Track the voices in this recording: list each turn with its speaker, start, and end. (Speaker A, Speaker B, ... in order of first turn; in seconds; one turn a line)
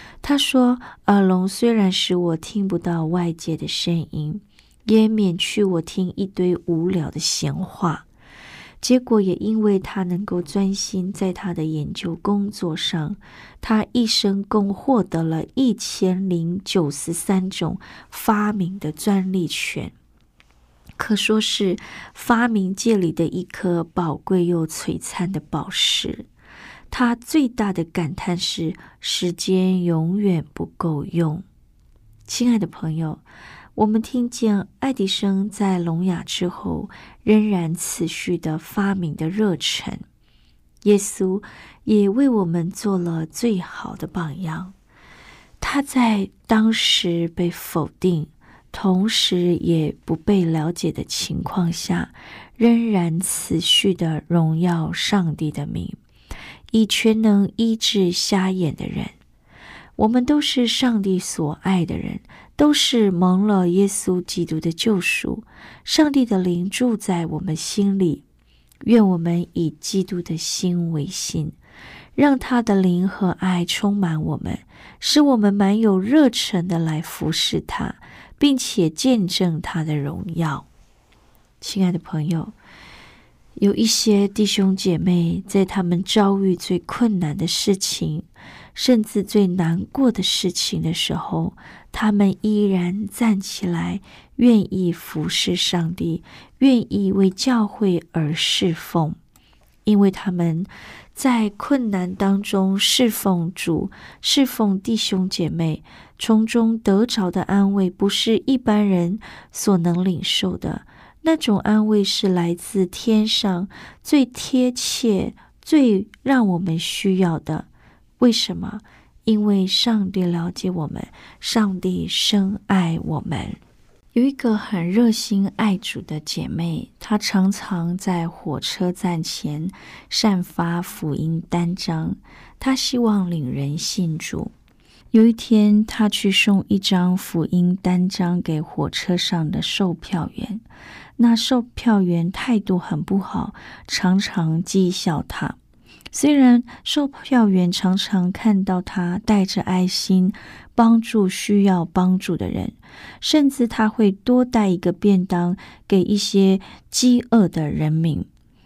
Speaker A: 0.2-8.1
Speaker A: 8.8-19.9
Speaker A: 21.0-26.2
Speaker A: 26.9-31.4
Speaker A: 32.3-33.2
Speaker A: 33.8-40.0
Speaker A: 40.8-44.7
Speaker A: 45.6-56.0
Speaker A: 56.7-59.1
Speaker A: 60.0-68.2
Speaker A: 68.8-71.6
Speaker A: 72.2-80.7
Speaker A: 81.6-82.5
Speaker A: 83.6-99.2
Speaker A: 99.8-117.7
Speaker A: 118.2-123.6
Speaker A: 124.1-134.5
Speaker A: 135.1-140.6
Speaker A: 141.2-145.6
Speaker A: 146.1-158.3